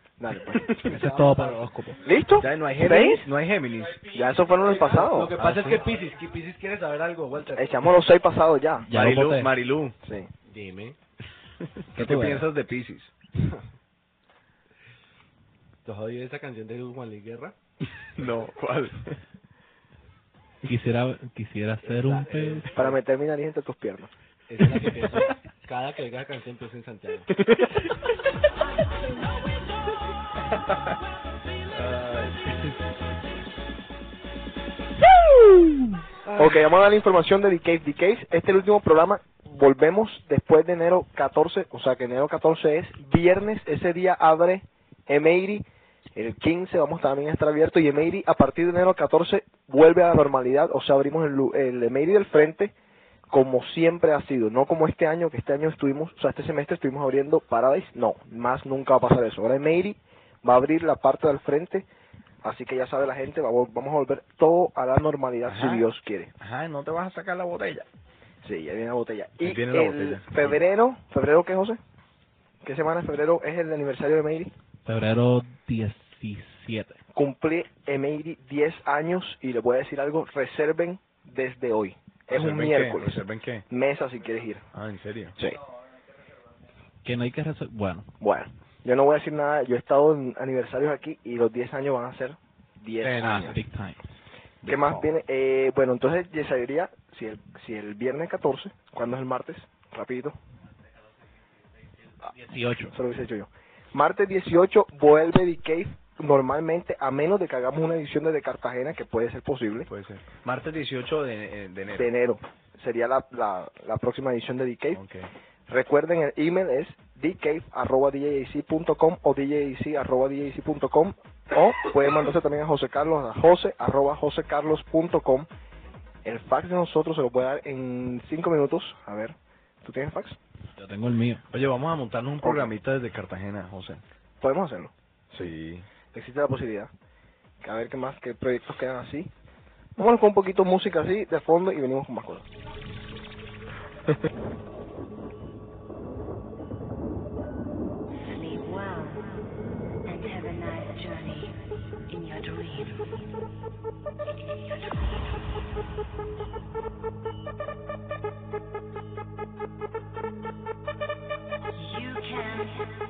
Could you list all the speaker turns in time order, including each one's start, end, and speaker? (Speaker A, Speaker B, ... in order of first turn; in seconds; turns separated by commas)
Speaker A: 0.2-0.6, Speaker B: 0.5-0.8, Speaker C: 0.8-2.0, Speaker D: 0.9-1.6, Speaker A: 2.0-3.2, Speaker B: 2.4-4.1, Speaker A: 4.1-5.3, Speaker D: 4.6-7.8, Speaker C: 5.4-5.8, Speaker A: 7.6-8.9, Speaker C: 8.9-9.5, Speaker B: 8.9-9.9, Speaker A: 10.0-10.3, Speaker D: 10.5-11.0, Speaker C: 11.9-12.5, Speaker B: 11.9-13.1, Speaker D: 13.4-13.6, Speaker D: 15.8-17.5, Speaker B: 18.1-19.2, Speaker C: 20.6-22.7, Speaker D: 21.8-22.9, Speaker A: 22.7-24.1, Speaker D: 24.5-27.3, Speaker B: 27.4-27.8, Speaker B: 31.7-32.5, Speaker A: 36.3-45.6, Speaker A: 46.1-52.7, Speaker A: 53.3-61.9, Speaker A: 62.4-66.3, Speaker B: 65.4-65.9, Speaker B: 66.4-67.9, Speaker A: 68.4-71.8, Speaker B: 69.4-70.6, Speaker A: 72.6-74.5, Speaker C: 74.8-77.0, Speaker A: 77.1-84.6, Speaker B: 82.3-83.7, Speaker B: 84.7-85.4, Speaker C: 87.0-88.1, Speaker A: 88.2-93.6, Speaker C: 93.0-94.0, Speaker B: 94.6-95.0, Speaker A: 94.7-100.3, Speaker C: 102.2-102.9, Speaker A: 102.9-109.9, Speaker B: 109.9-112.1, Speaker A: 111.9-115.0, Speaker B: 114.9-115.3, Speaker A: 115.7-125.5, Speaker A: 126.2-130.4, Speaker C: 130.8-131.4, Speaker B: 131.5-134.0, Speaker A: 132.4-132.7, Speaker A: 134.4-135.5, Speaker B: 135.3-135.9, Speaker A: 136.1-136.9, Speaker A: 137.6-139.3, Speaker A: 140.0-142.4, Speaker E: 148.3-149.3, Speaker E: 150.1-151.6, Speaker E: 152.1-153.2, Speaker E: 161.8-162.9